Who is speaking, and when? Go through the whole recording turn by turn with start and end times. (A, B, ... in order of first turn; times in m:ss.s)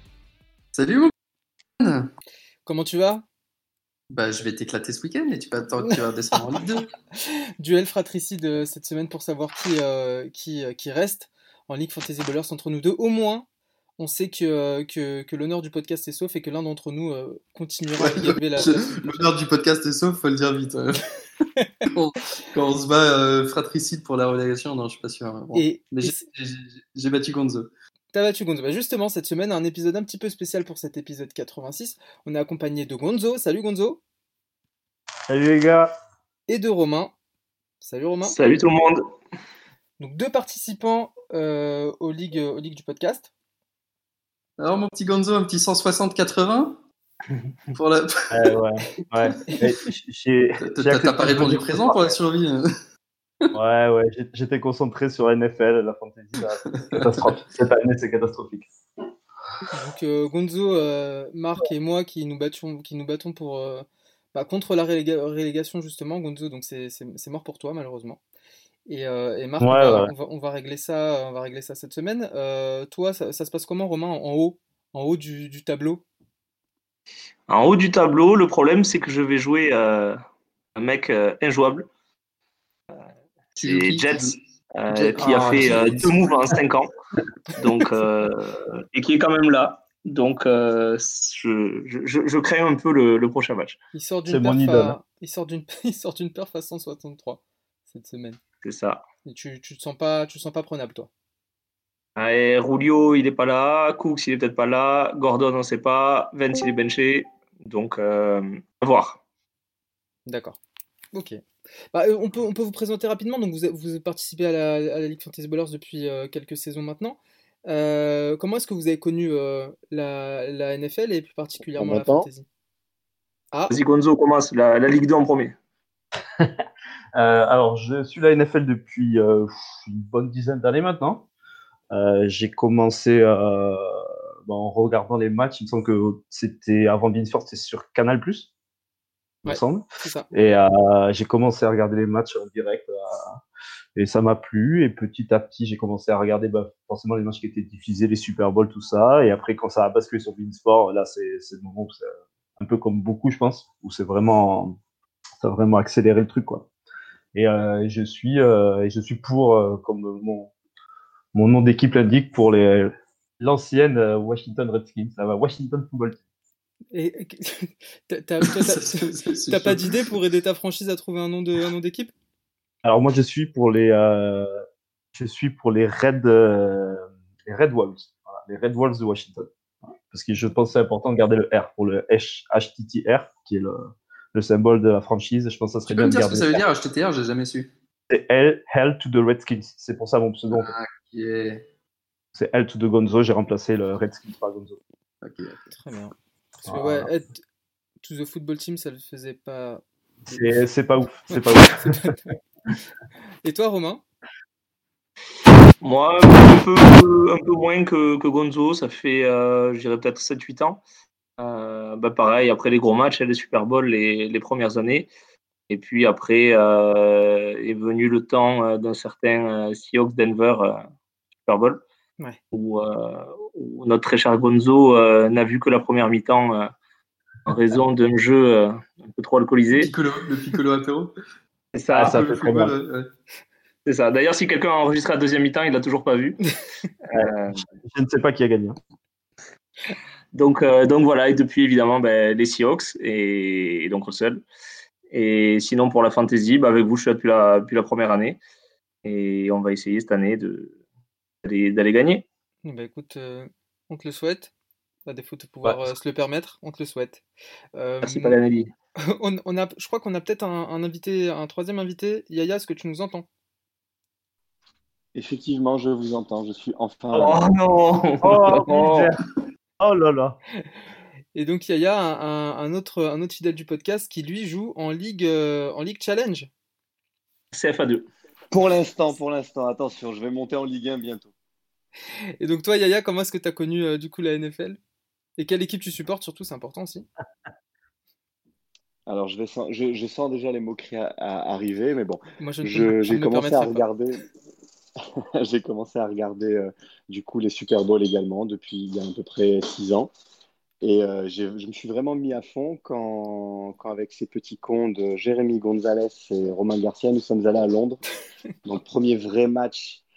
0:00.7-0:01.1 A
0:01.8-0:02.1 A
0:02.6-0:03.2 B
0:04.1-0:06.9 A
0:07.1-0:13.4 B
0:14.0-0:19.3 B
0:18.0-0:21.0 A
0:21.8-0:27.7 A
0:25.5-0:26.2 B
0:28.1-0:34.0 B
0:35.3-0:35.9 C
0:36.5-0:37.1 B
0:37.8-0:38.4 B
0:38.2-0:39.0 D
0:40.0-0:43.3 B
0:44.6-0:46.8 A
0:47.7-0:48.6 A
0:48.3-0:52.2 C
0:50.6-0:52.7 A
0:53.5-0:58.7 C
0:56.7-0:57.3 A
0:59.7-1:08.2 B
1:08.9-1:16.0 B
1:09.6-1:10.1 C
1:17.5-1:20.2 D
1:20.8-1:21.9 D
1:23.6-1:24.4 A
1:23.6-1:26.9 D
1:24.9-1:26.1 A
1:25.2-1:26.1 C
1:27.5-1:33.8 D
1:33.9-1:38.4 B
1:34.3-1:35.0 C
1:38.6-1:39.0 D
1:39.2-1:41.1 B
1:42.2-1:49.2 D
1:50.3-1:50.6 B
1:51.1-1:51.4 B
1:51.9-2:02.4 B
2:01.7-2:02.3 E
2:03.7-2:05.5 D
2:07.1-2:11.2 C
2:11.9-2:18.5 C
2:19.4-2:23.4 C
2:19.4-2:20.3 B
2:24.0-2:34.8 C
2:35.4-2:36.7 C
2:37.3-2:40.5 C
2:41.3-2:46.2 C
2:46.9-2:52.1 B
2:48.4-2:49.9 A
2:52.8-2:54.6 C
2:55.1-2:59.5 C
3:00.1-3:03.8 C
3:04.3-3:06.6 C
3:05.9-3:07.7 A
3:08.1-3:10.7 C
3:10.5-3:11.6 A
3:12.3-3:14.8 C
3:15.2-3:15.7 A
3:15.7-3:17.4 B
3:16.6-3:17.1 C
3:18.0-3:20.6 B
3:20.3-3:22.3 C
3:21.3-3:22.2 B
3:23.4-3:24.0 B
3:25.8-3:30.8 D
3:31.4-3:35.1 D
3:35.7-3:40.8 D
3:41.5-3:41.8 D
3:42.5-3:46.7 D
3:47.4-3:49.9 D
3:49.7-3:51.1 A
3:51.7-3:52.1 D
3:51.9-3:53.1 A
3:51.9-3:52.7 C
3:53.8-3:56.4 D
3:57.1-3:57.6 D
3:57.1-3:58.8 C
4:00.3-4:04.4 D
4:05.1-4:08.4 D
4:09.0-4:10.8 D
4:11.4-4:12.2 D
4:12.6-4:14.5 B
4:15.0-4:17.2 B
4:17.7-4:18.4 B
4:18.0-4:18.7 D
4:19.1-4:23.2 B
4:25.1-4:27.5 E
4:27.1-4:29.1 D
4:28.2-4:29.2 C
4:29.8-4:30.4 C
4:31.3-4:36.5 B
4:37.5-4:38.1 D
4:38.5-4:41.3 E
4:42.4-4:44.8 B
4:45.4-4:47.0 B
4:49.1-4:54.2 E
4:52.4-4:53.8 B
4:55.4-5:00.1 E
5:00.8-5:08.0 E
5:08.6-5:10.0 E